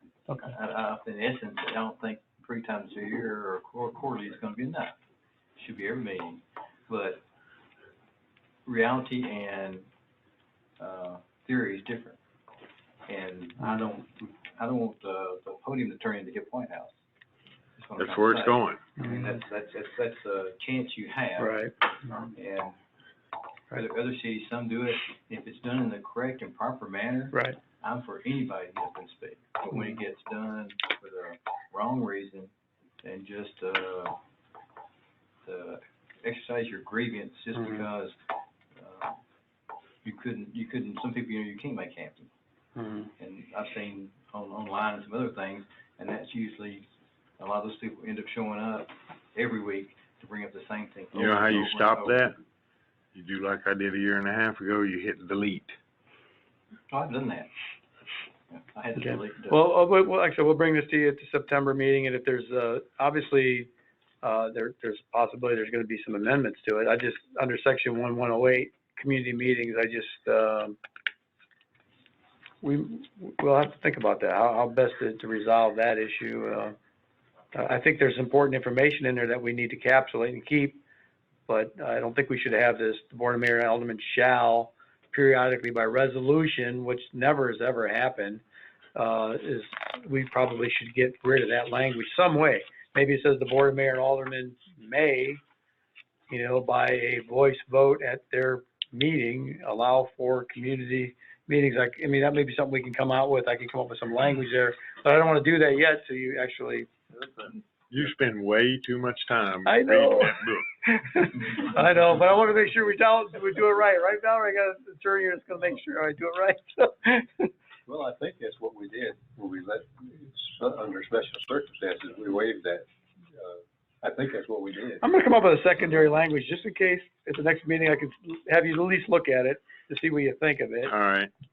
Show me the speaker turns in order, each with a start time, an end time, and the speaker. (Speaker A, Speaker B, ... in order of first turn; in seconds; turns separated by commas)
Speaker A: 0.4-5.0, Speaker A: 5.6-7.2, Speaker A: 8.7-9.9, Speaker A: 10.8-12.2, Speaker A: 13.1-17.0, Speaker A: 17.8-21.7, Speaker B: 18.0-18.8, Speaker C: 19.0-19.2, Speaker C: 21.4-21.7, Speaker A: 22.2-22.8, Speaker A: 23.7-32.5, Speaker A: 33.0-34.2, Speaker A: 35.5-38.1, Speaker A: 38.7-39.2, Speaker A: 40.0-42.3, Speaker C: 42.8-43.1, Speaker A: 43.2-46.9, Speaker A: 47.4-52.2, Speaker B: 51.1-52.4, Speaker B: 53.1-55.8, Speaker A: 56.9-57.5, Speaker A: 58.5-59.7, Speaker C: 59.1-63.7, Speaker C: 64.2-70.8, Speaker C: 72.6-76.8, Speaker C: 77.5-80.8, Speaker C: 81.5-88.4, Speaker C: 89.0-95.4, Speaker C: 96.3-106.9, Speaker B: 107.9-110.7, Speaker C: 109.7-117.5, Speaker D: 117.9-125.0, Speaker C: 125.0-130.9, Speaker B: 130.8-131.3